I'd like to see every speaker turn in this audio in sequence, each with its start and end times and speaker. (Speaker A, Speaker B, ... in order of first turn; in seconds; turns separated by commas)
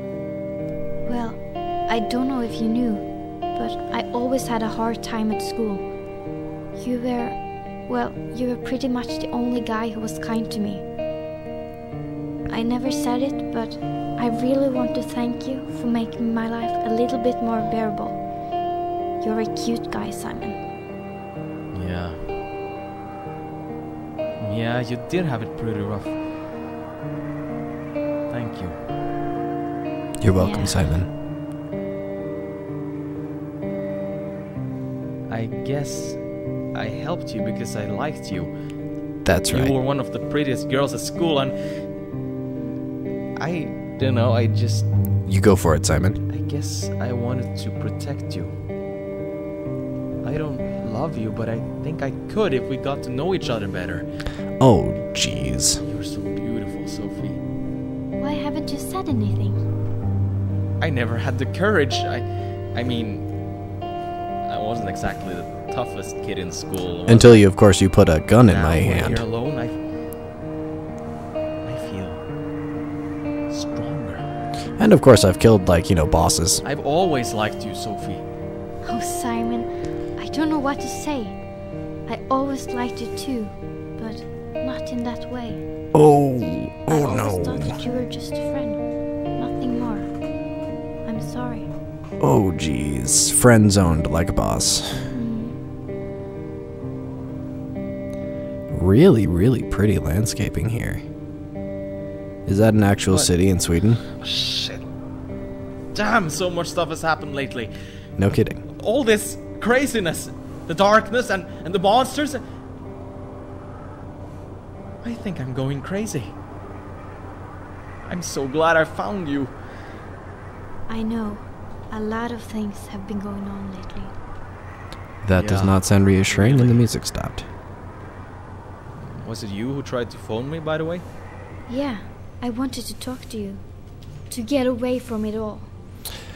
Speaker A: 1.1-5.9, Speaker A: 6.8-10.8, Speaker A: 12.5-18.2, Speaker A: 19.2-20.6, Speaker B: 21.7-22.2, Speaker B: 24.4-26.2, Speaker B: 28.3-28.8, Speaker C: 30.2-31.1, Speaker A: 30.4-30.8, Speaker B: 35.3-36.2, Speaker B: 36.7-38.5, Speaker C: 39.2-39.8, Speaker B: 39.5-41.5, Speaker B: 43.4-44.9, Speaker C: 45.3-46.2, Speaker B: 46.3-48.5, Speaker B: 50.2-54.1, Speaker C: 54.6-55.8, Speaker B: 55.8-57.4, Speaker A: 58.2-59.6, Speaker B: 60.8-63.3, Speaker B: 64.5-67.5, Speaker C: 67.1-69.2, Speaker B: 68.4-69.8, Speaker B: 71.7-72.2, Speaker B: 73.5-74.2, Speaker C: 74.8-76.6, Speaker B: 76.6-78.2, Speaker A: 78.8-81.4, Speaker A: 82.1-85.6, Speaker C: 85.9-87.8, Speaker A: 86.9-90.1, Speaker A: 91.0-91.7, Speaker C: 92.2-94.9, Speaker A: 95.1-95.6, Speaker C: 98.7-101.0, Speaker C: 102.5-104.0, Speaker B: 104.2-104.8, Speaker B: 105.9-107.7, Speaker C: 108.2-108.6, Speaker B: 108.7-112.4, Speaker B: 115.0-116.3, Speaker B: 118.1-119.5, Speaker A: 120.9-124.1, Speaker C: 125.2-127.5, Speaker B: 125.3-126.9, Speaker B: 129.0-131.0, Speaker A: 131.7-133.6, Speaker A: 134.3-135.7